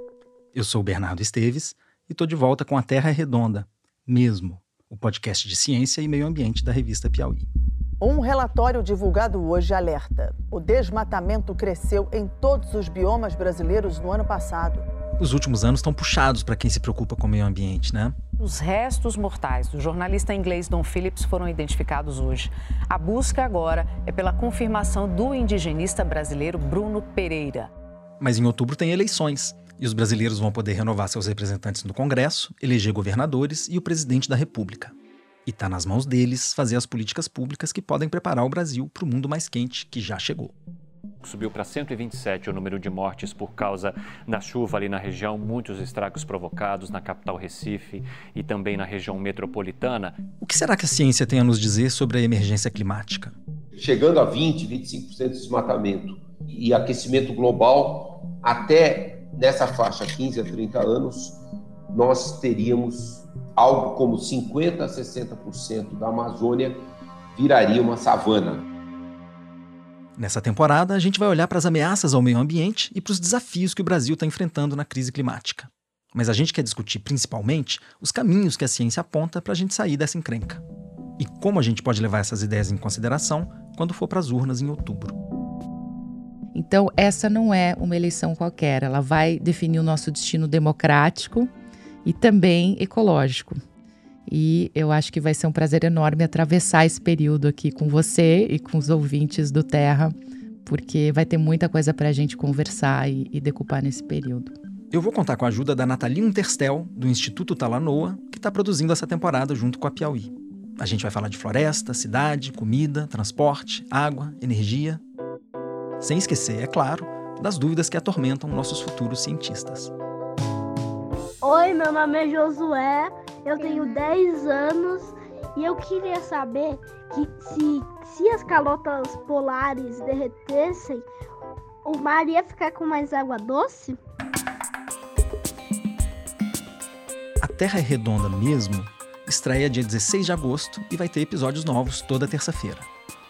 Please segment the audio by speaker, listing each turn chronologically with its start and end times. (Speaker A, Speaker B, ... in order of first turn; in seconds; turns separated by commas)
Speaker A: 0.5-7.5, Speaker B: 8.0-14.8, Speaker A: 15.2-18.1, Speaker C: 18.4-27.7, Speaker A: 28.2-34.9, Speaker A: 35.5-40.5, Speaker D: 41.2-50.1, Speaker A: 50.4-53.3, Speaker E: 53.8-61.4, Speaker E: 61.9-66.8, Speaker E: 67.3-68.7, Speaker A: 70.2-80.6, Speaker A: 81.2-85.2, Speaker F: 86.5-91.5, Speaker F: 92.0-93.6, Speaker F: 94.3-104.5, Speaker A: 104.9-115.0, Speaker A: 116.0-119.9, Speaker G: 121.4-131.0, Speaker G: 131.8-133.9, Speaker A: 137.4-142.9